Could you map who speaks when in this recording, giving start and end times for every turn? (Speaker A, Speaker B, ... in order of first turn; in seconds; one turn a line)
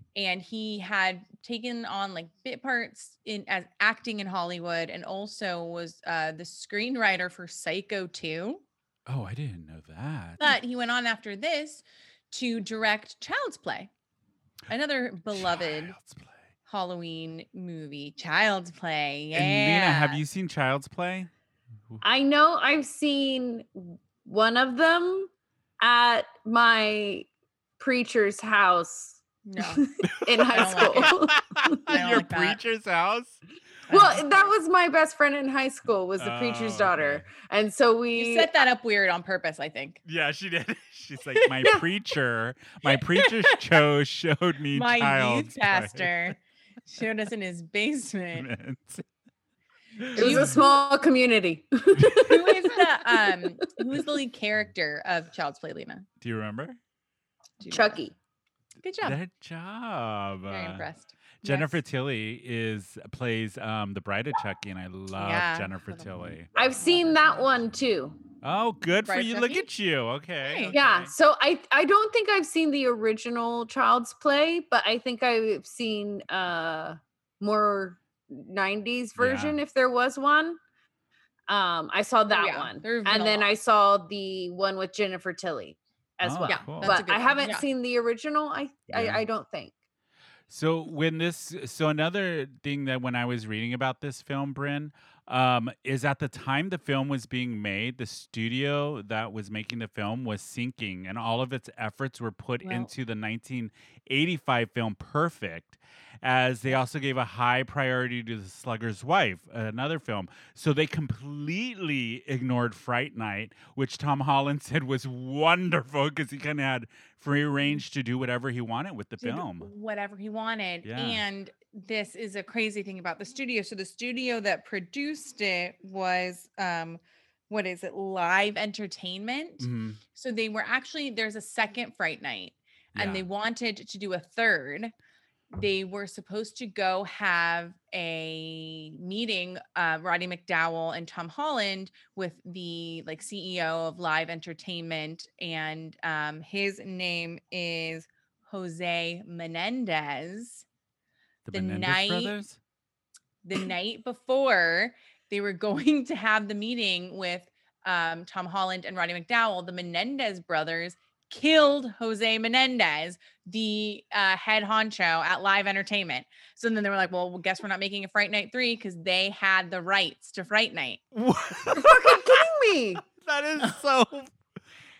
Speaker A: 0.1-8.6
Speaker B: 9.1-10.6
Speaker A: 10.4-13.9
Speaker A: 14.7-15.9
Speaker B: 15.3-16.3
Speaker A: 16.7-20.2
Speaker B: 19.3-21.3
Speaker C: 22.0-25.3
Speaker C: 25.8-27.3
Speaker C: 27.8-32.2
Speaker A: 29.4-31.1
Speaker B: 30.0-33.4
Speaker A: 31.9-32.6
Speaker A: 33.9-34.5
Speaker C: 33.9-38.5
Speaker B: 36.2-37.3
Speaker A: 38.1-40.0
Speaker B: 40.0-46.2
Speaker A: 41.3-41.8
Speaker A: 42.8-43.6
Speaker A: 44.7-48.5
Speaker B: 48.3-49.0
Speaker B: 50.0-50.6
Speaker C: 50.1-53.4
Speaker A: 50.1-50.8
Speaker A: 52.0-56.0
Speaker B: 56.2-56.8
Speaker A: 57.6-58.0
Speaker C: 57.7-58.1
Speaker A: 58.8-59.2
Speaker B: 59.0-60.8
Speaker A: 60.5-61.8
Speaker B: 61.4-66.5
Speaker A: 65.1-66.1
Speaker C: 66.5-68.2
Speaker A: 66.8-67.5
Speaker B: 68.4-71.1
Speaker A: 69.0-69.7
Speaker A: 70.4-70.8
Speaker C: 70.7-80.6
Speaker B: 79.2-79.6
Speaker C: 81.5-89.7
Speaker A: 82.3-83.5
Speaker B: 86.2-87.0
Speaker A: 86.4-87.6
Speaker B: 88.9-89.2
Speaker B: 90.5-119.7
Speaker A: 102.6-102.9
Speaker A: 119.2-134.9
Speaker B: 120.8-121.2
Speaker B: 129.6-130.0
Speaker B: 132.9-133.2
Speaker A: 135.5-150.6
Speaker B: 151.4-152.6
Speaker A: 151.5-152.3
Speaker A: 153.4-171.0
Speaker B: 171.1-172.4
Speaker C: 171.7-173.0
Speaker B: 173.0-174.3